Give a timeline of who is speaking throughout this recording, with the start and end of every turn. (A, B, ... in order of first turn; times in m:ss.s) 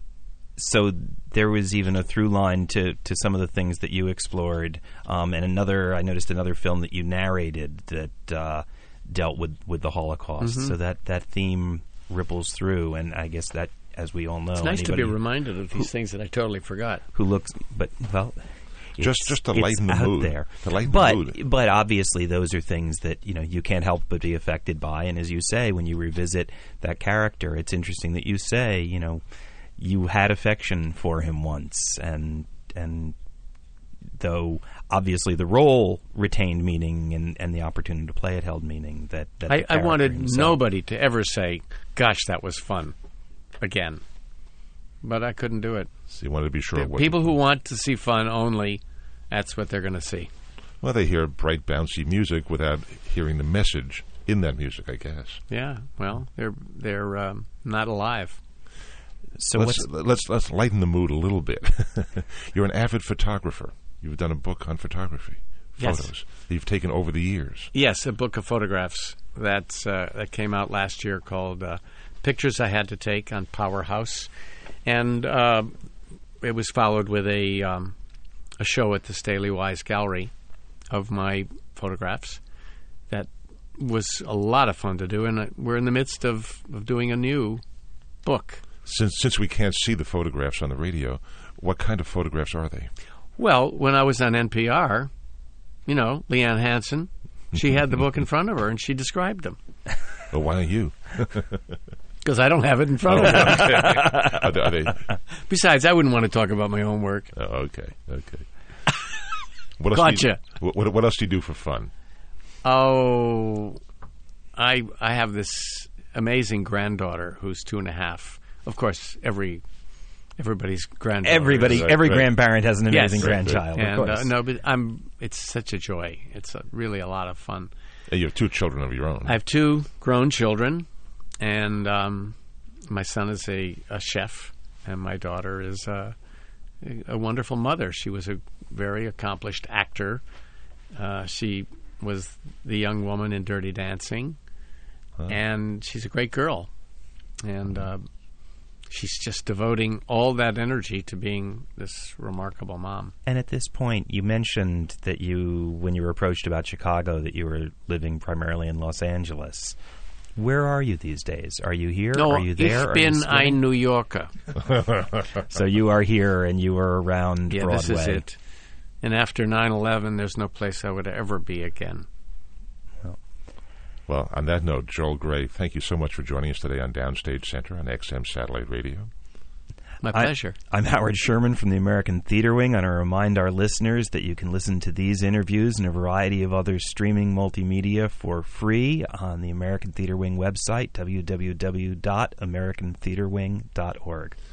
0:00.6-0:15.2 A
0:10.4-0:10.8 B
0:14.6-0:17.1 B
0:17.2-0:29.2 A
0:19.0-0:21.4 C
0:29.8-0:33.2 A
0:34.2-0:40.6 A
0:39.5-0:42.9 B
0:43.6-0:44.0 B
0:45.0-0:45.9 B
0:46.1-0:47.3 C
0:46.8-0:50.3 B
0:50.8-0:55.4 C
0:55.5-0:58.4 B
0:59.4-0:59.8 A
0:59.6-1:07.7 C
1:05.8-1:06.1 B
1:07.7-1:14.3 B
1:14.9-1:15.7 B
1:16.4-1:17.9 B
1:18.6-1:20.3 B
1:20.9-1:22.4 B
1:23.1-1:27.6 B
1:28.2-1:28.6 B
1:28.9-1:32.9 C
1:33.4-1:35.1 B
1:35.9-1:39.6 B
1:40.3-1:41.6 C
1:42.2-1:44.3 B
1:43.1-1:45.0 C
1:45.5-1:47.3 B
1:47.3-1:48.5 C
1:49.8-1:51.9 C
1:49.9-1:50.4 B
1:52.6-1:53.8 B
1:54.6-1:59.6 B
2:00.4-2:02.0 B
2:01.2-2:04.3 A
2:01.6-2:02.3 C
2:02.9-2:07.7 B
2:03.2-2:03.6 C
2:08.1-2:09.4 C
2:09.3-2:10.9 B
2:11.4-2:12.4 B
2:12.9-2:16.2 B
2:16.8-2:20.2 B
2:20.9-2:24.4 B
2:25.3-2:26.7 B
2:27.4-2:28.1 B
2:28.9-2:33.1 B
2:33.3-2:39.8 A
2:40.4-2:43.6 A
2:42.1-2:44.3 B
2:45.4-2:48.2 A
2:47.5-2:48.4 B
2:49.0-2:52.1 B
2:54.1-2:59.1 C
3:00.0-3:00.6 B
3:00.1-3:14.4 A